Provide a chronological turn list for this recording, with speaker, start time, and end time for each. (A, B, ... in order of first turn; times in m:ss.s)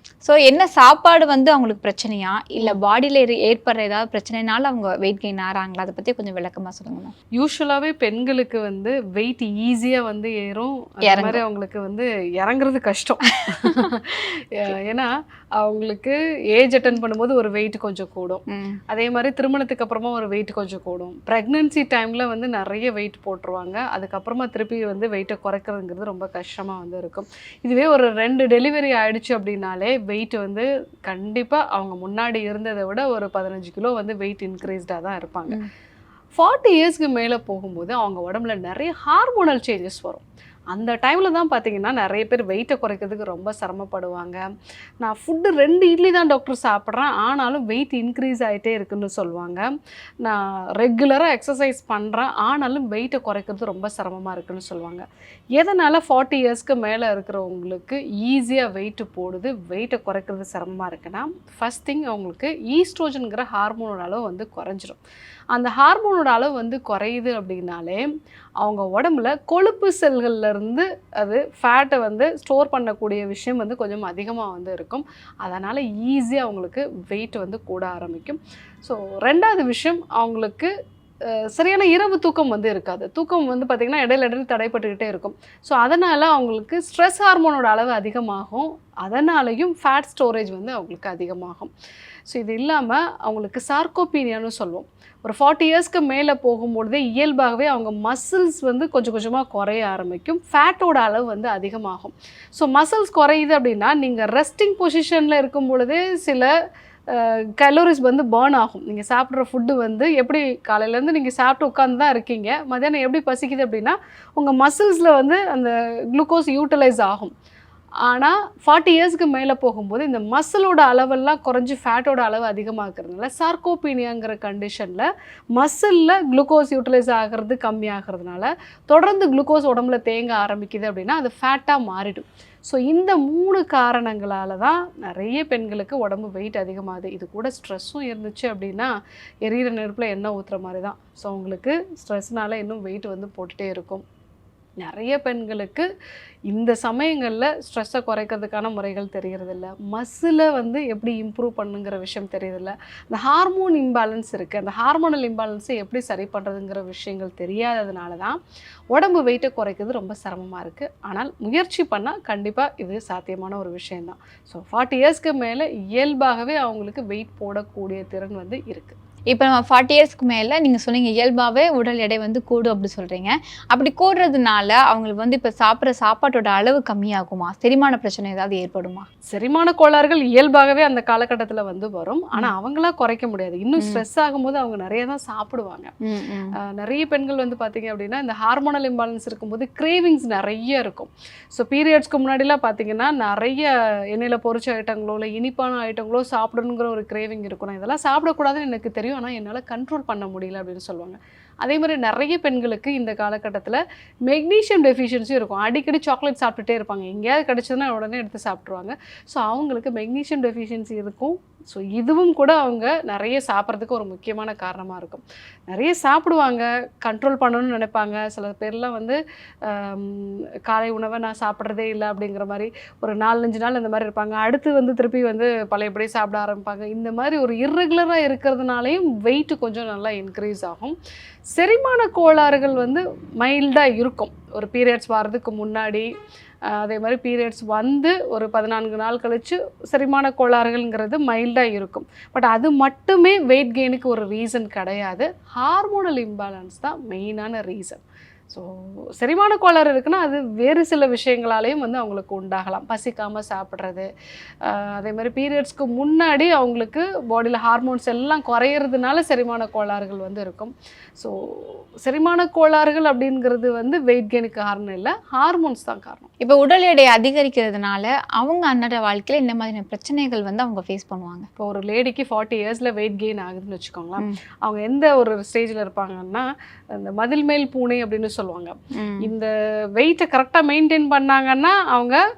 0:00.2-0:07.1 A
0:07.4-0:35.6 B
0:11.0-0:11.4 A
0:18.5-0:18.8 A
0:36.4-0:44.4 B
0:45.0-0:49.7 B
0:50.2-0:55.0 B
0:55.6-1:05.0 B
1:05.5-1:08.0 B
1:08.6-1:20.7 B
1:21.5-1:31.7 B
1:32.3-1:46.5 B
1:47.1-1:57.3 B
1:58.1-2:18.9 B
2:19.4-2:24.0 B
2:24.8-2:25.9 B
2:26.5-2:38.4 B
2:38.9-2:49.0 B
2:49.3-2:59.1 A
2:59.3-3:05.9 B
3:03.8-3:04.0 A
3:06.0-3:06.5 A
3:06.7-3:51.0 B
3:51.6-3:56.1 B
3:56.7-4:14.1 B
4:14.7-4:26.3 B
4:26.4-4:31.5 A
4:31.6-4:42.2 B
4:39.0-4:39.3 A